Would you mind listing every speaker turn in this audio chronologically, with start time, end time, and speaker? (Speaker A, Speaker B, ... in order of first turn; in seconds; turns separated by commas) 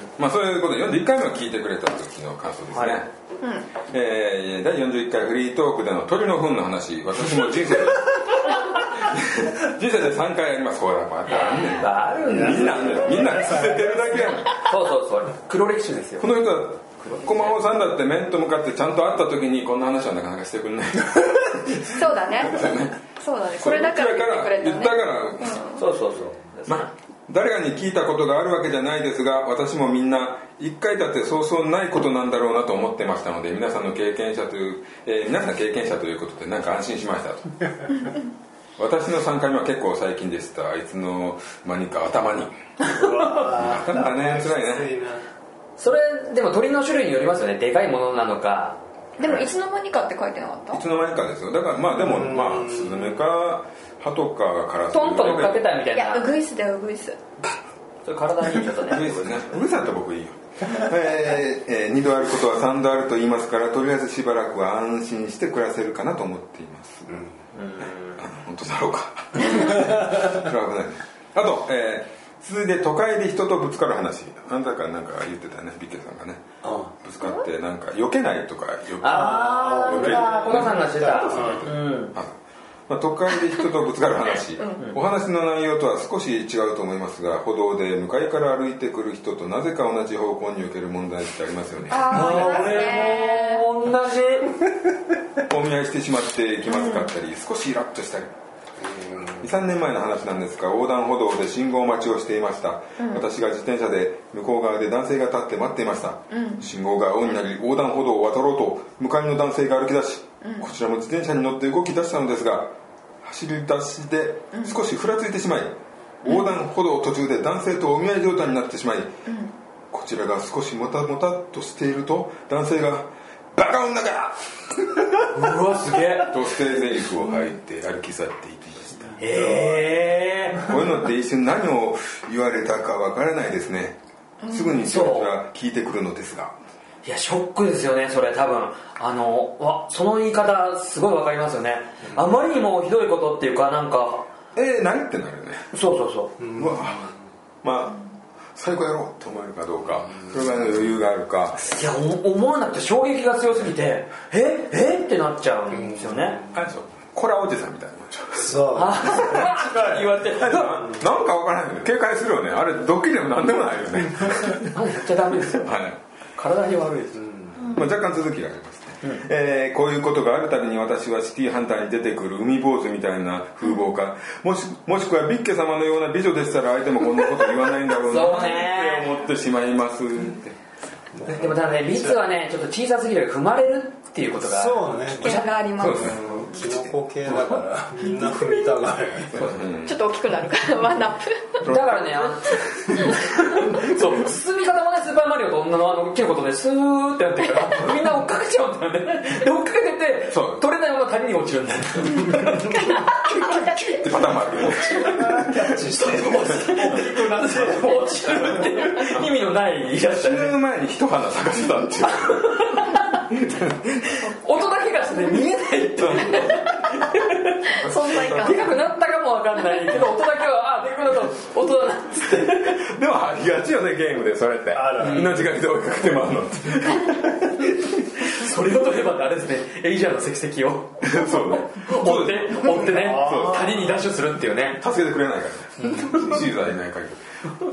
Speaker A: 0.1-3.1, Speaker B: 2.7-3.0, Speaker C: 3.4-3.7, Speaker A: 3.9-14.6, Speaker B: 11.3-13.0, Speaker D: 12.2-14.5, Speaker B: 14.6-16.3, Speaker A: 16.2-23.0, Speaker B: 17.0-17.5, Speaker C: 21.9-25.8, Speaker A: 23.6-25.6, Speaker B: 25.8-26.9, Speaker A: 26.7-37.5, Speaker A: 38.8-42.5, Speaker D: 42.9-45.3, Speaker A: 43.2-44.9, Speaker B: 45.8-48.8, Speaker C: 49.2-50.8, Speaker A: 49.2-49.5, Speaker A: 50.7-55.7, Speaker D: 51.9-53.2, Speaker B: 54.9-56.3, Speaker C: 55.9-57.2, Speaker B: 58.0-59.6, Speaker A: 58.8-67.2, Speaker B: 67.5-68.2, Speaker A: 68.2-76.4, Speaker D: 76.6-76.9, Speaker A: 77.0-82.4, Speaker B: 79.0-82.1, Speaker D: 79.1-81.7, Speaker A: 82.9-92.6, Speaker C: 91.9-93.7, Speaker B: 92.1-94.5, Speaker D: 92.1-93.0, Speaker A: 95.4-98.3, Speaker C: 96.7-97.1, Speaker D: 98.8-99.5, Speaker A: 99.4-119.1, Speaker C: 103.0-103.3, Speaker C: 106.3-106.6, Speaker C: 110.4-110.7, Speaker C: 116.2-116.5, Speaker C: 119.3-119.5, Speaker A: 119.9-125.5, Speaker B: 125.3-126.3, Speaker A: 126.1-129.2, Speaker D: 129.2-130.0, Speaker B: 129.2-130.7, Speaker A: 130.6-136.6, Speaker C: 134.4-134.8, Speaker B: 134.8-135.3, Speaker B: 137.0-144.3, Speaker A: 144.6-145.7, Speaker B: 145.7-146.4, Speaker D: 146.4-147.1, Speaker A: 146.5-147.1, Speaker A: 147.6-148.0, Speaker A: 148.6-151.7, Speaker B: 151.6-156.4, Speaker D: 155.7-156.6, Speaker A: 156.5-159.5, Speaker D: 158.4-161.0, Speaker B: 158.7-160.8, Speaker A: 160.3-164.8, Speaker B: 164.6-165.7, Speaker A: 165.5-166.0, Speaker B: 166.4-167.3, Speaker D: 167.1-167.8, Speaker C: 167.6-167.9, Speaker A: 167.7-180.6, Speaker B: 178.1-179.1, Speaker D: 181.1-182.2, Speaker B: 181.3-185.5, Speaker D: 184.4-189.6, Speaker C: 185.1-186.3, Speaker A: 185.8-186.9, Speaker C: 188.0-188.7, Speaker A: 189.3-190.0, Speaker C: 189.8-191.7, Speaker A: 191.6-193.0, Speaker B: 191.6-204.1, Speaker A: 200.3-200.6, Speaker C: 202.2-204.1, Speaker A: 203.9-205.5, Speaker B: 204.6-210.5, Speaker D: 204.6-208.8, Speaker A: 208.9-209.3, Speaker A: 210.1-214.2, Speaker B: 212.0-213.3, Speaker B: 214.1-217.8, Speaker A: 216.0-216.7, Speaker C: 216.3-216.6, Speaker A: 217.7-218.8, Speaker C: 217.7-218.9, Speaker B: 218.3-222.8, Speaker C: 219.7-220.1, Speaker A: 222.5-227.9, Speaker D: 224.7-225.5, Speaker B: 225.0-225.3, Speaker B: 227.8-234.8, Speaker A: 231.0-233.7, Speaker D: 232.7-233.9, Speaker A: 234.7-237.4, Speaker B: 235.8-236.4